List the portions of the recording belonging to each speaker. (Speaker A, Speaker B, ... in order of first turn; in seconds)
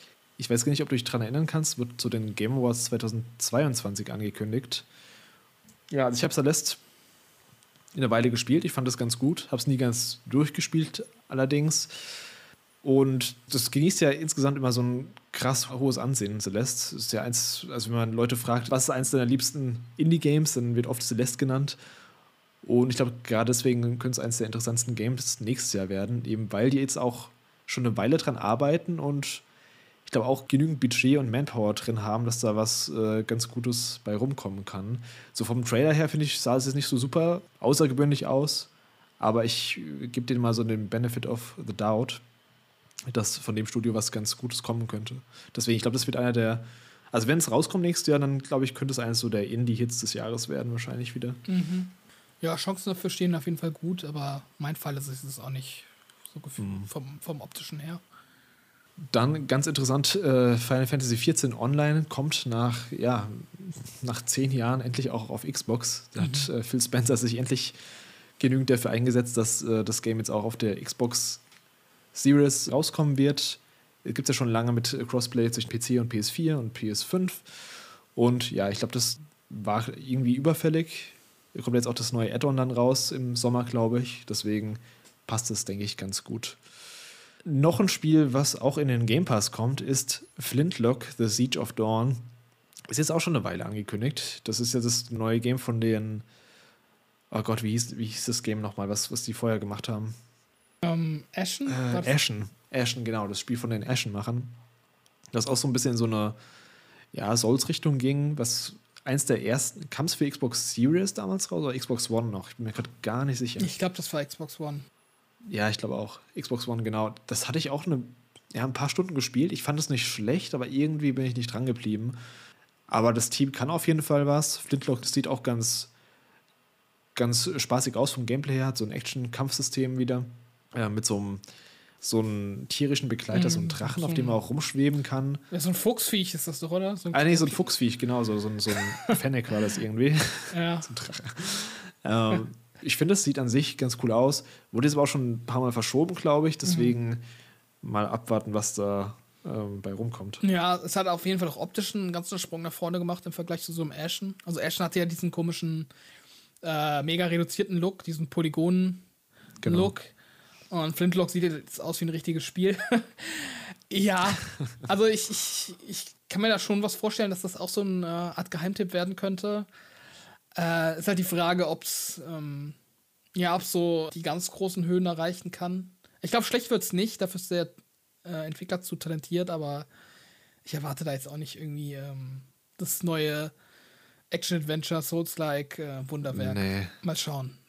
Speaker A: 0.4-4.8, 5.9-6.8, 7.9-12.1, 12.8-21.8, 22.6-29.4, 30.1-42.2, 43.1-51.4, 56.6-56.9, 59.1-67.8, 68.4-71.4, 72.1-86.6, 87.4-92.2, 92.9-96.2, 97.3-100.2, 101.7-104.5, 105.3-106.4, 107.1-113.7, 115.5-122.2, 122.9-125.9, 127.1-131.4, 132.0-135.4, 137.1-147.2, 147.8-150.4, 159.6-159.9, 186.3-186.9
Speaker B: 51.5-58.0, 66.2-66.5, 100.8-102.2, 113.6-114.8, 133.3-134.4, 135.5-137.6, 138.8-139.2, 140.5-140.9, 146.6-146.9, 150.4-155.9, 156.6-159.0, 159.6-160.1, 160.7-169.7, 170.6-172.8, 173.3-179.9, 180.6-183.5, 184.3-187.6